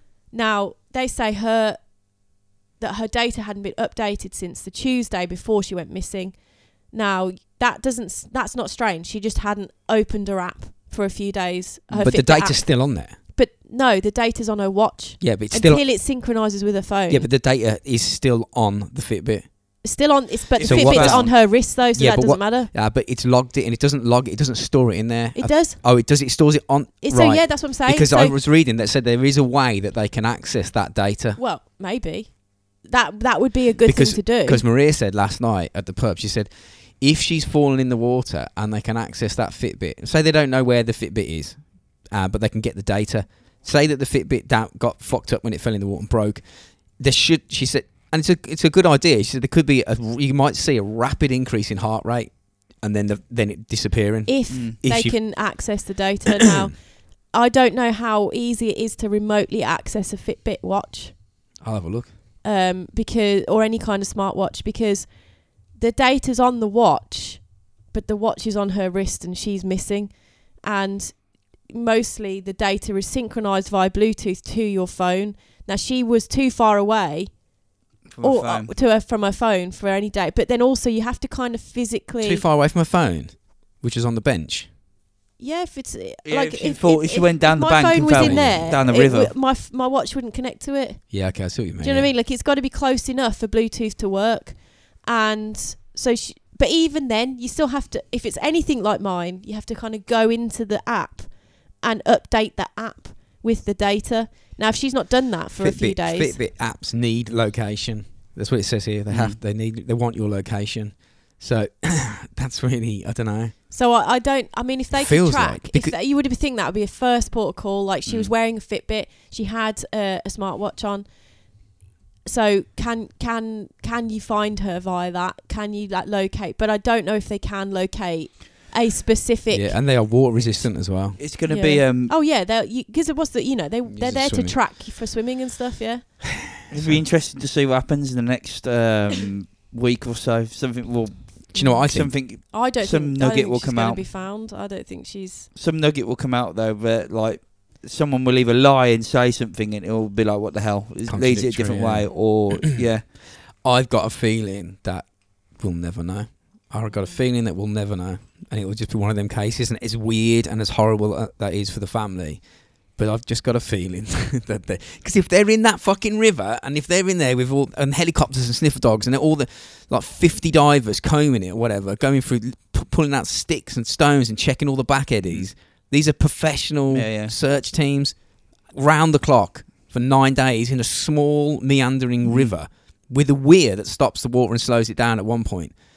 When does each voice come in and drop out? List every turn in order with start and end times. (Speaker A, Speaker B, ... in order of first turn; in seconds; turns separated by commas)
Speaker A: 0.3-17.3, Speaker B: 11.9-12.2, Speaker C: 12.0-13.2, Speaker C: 15.2-15.9, Speaker C: 17.1-19.9, Speaker A: 19.8-22.7, Speaker B: 20.6-21.3, Speaker C: 20.6-31.4, Speaker A: 25.3-25.8, Speaker A: 27.0-28.3, Speaker A: 31.4-34.6, Speaker C: 33.8-55.9, Speaker A: 54.3-61.2, Speaker B: 54.5-54.8, Speaker C: 61.6-62.1, Speaker A: 62.4-77.4, Speaker B: 78.1-78.7, Speaker A: 78.2-82.4, Speaker C: 82.2-84.7, Speaker A: 85.4-106.4, Speaker B: 86.2-89.3, Speaker C: 88.1-88.7, Speaker C: 91.1-92.1, Speaker C: 105.6-113.5, Speaker B: 109.1-109.4, Speaker A: 113.7-130.0, Speaker C: 114.9-116.0, Speaker B: 118.0-118.3, Speaker C: 129.5-131.2, Speaker B: 131.1-132.1, Speaker A: 131.4-136.4, Speaker C: 133.8-134.7, Speaker B: 136.7-144.1, Speaker A: 141.5-145.5, Speaker C: 141.5-142.1, Speaker B: 145.5-153.1, Speaker C: 151.1-178.2, Speaker B: 176.9-177.3, Speaker C: 178.7-185.8, Speaker B: 182.2-182.5